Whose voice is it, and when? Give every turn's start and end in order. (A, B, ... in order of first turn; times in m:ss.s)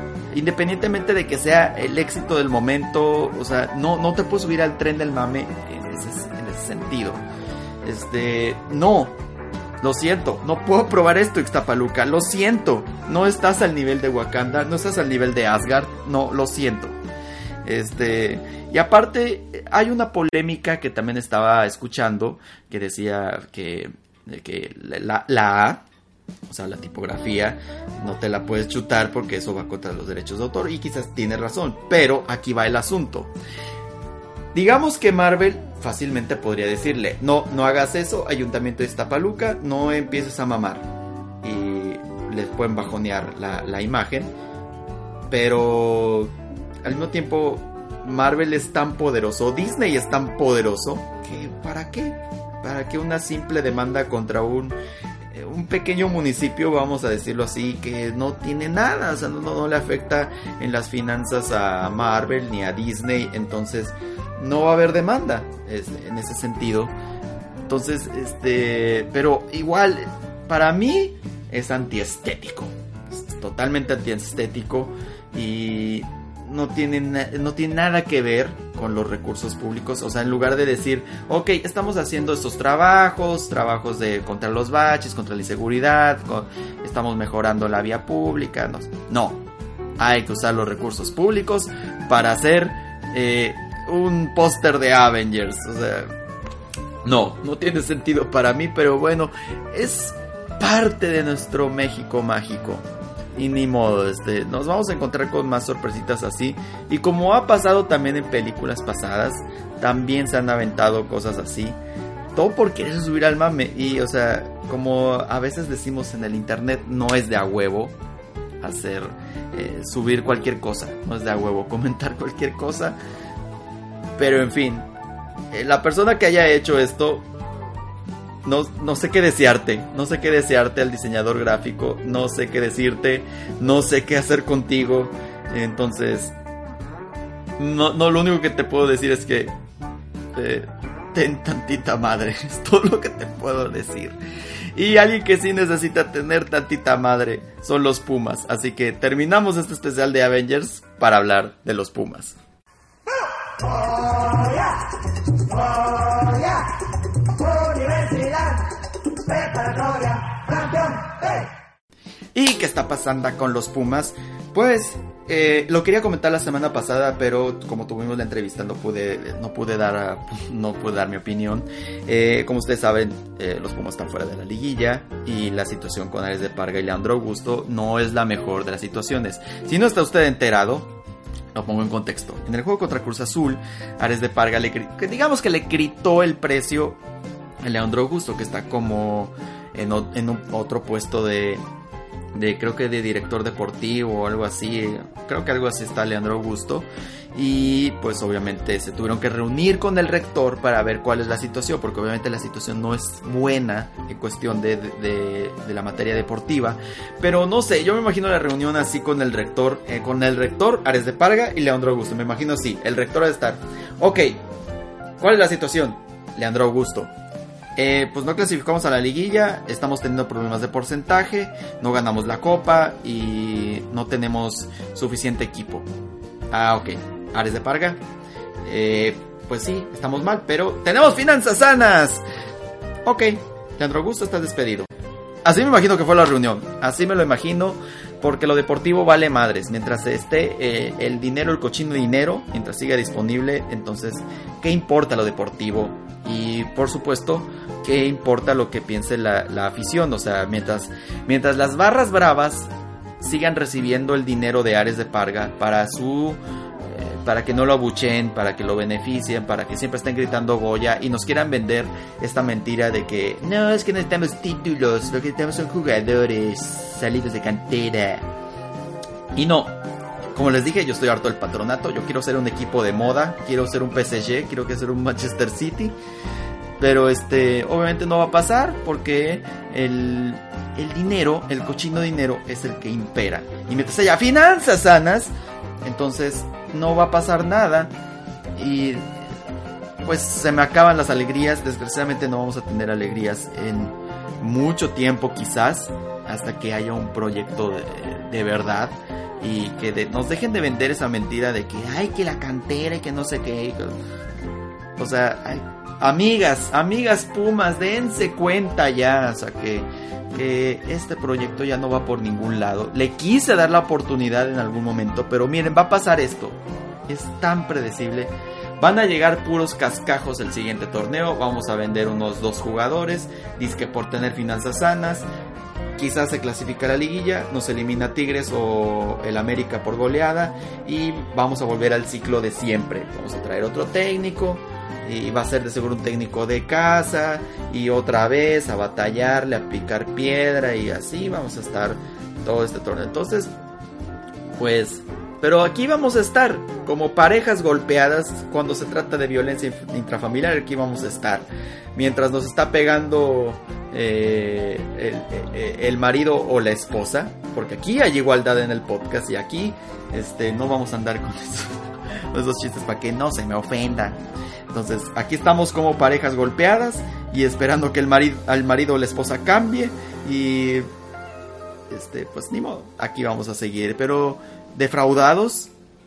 0:00.3-0:07.2 A
0:07.8-0:09.2 A
0:09.8-0:17.0 A
0:17.6-0:25.8 A
0:26.5-0:33.3 A
0:34.5-0:40.9 A
0:41.4-0:44.3 A
0:45.3-0:54.8 A
0:55.3-1:06.9 A
1:07.7-1:29.4 A
1:30.0-1:36.1 A
1:37.0-1:42.8 A
1:43.4-1:51.8 A
1:52.3-1:57.9 A
1:58.6-2:03.0 A
2:04.2-2:04.9 A
2:05.5-2:07.2 A
2:08.4-2:16.3 A
2:17.6-2:19.5 A
2:20.3-2:24.2 A
2:24.7-2:32.4 A
2:33.6-2:34.9 A
2:35.4-2:36.7 A
2:37.3-2:38.6 A
2:39.2-2:41.5 A
2:42.3-3:00.9 A
3:01.5-3:07.0 A
3:07.6-3:11.6 A
3:12.3-3:34.4 A
3:35.2-3:37.1 A
3:37.8-3:45.9 A
3:46.5-3:48.0 A
3:48.6-3:52.2 A
3:53.0-3:54.9 A
3:55.4-4:28.3 A
4:29.3-4:29.7 A
4:30.3-4:35.9 A
4:36.8-4:45.3 A
4:45.8-4:47.9 A
4:48.6-4:49.1 A
4:50.0-5:04.0 A
5:05.0-5:25.2 A
5:26.0-5:43.5 A
5:44.6-6:01.8 A
6:02.3-6:10.9 A
6:11.9-6:15.7 A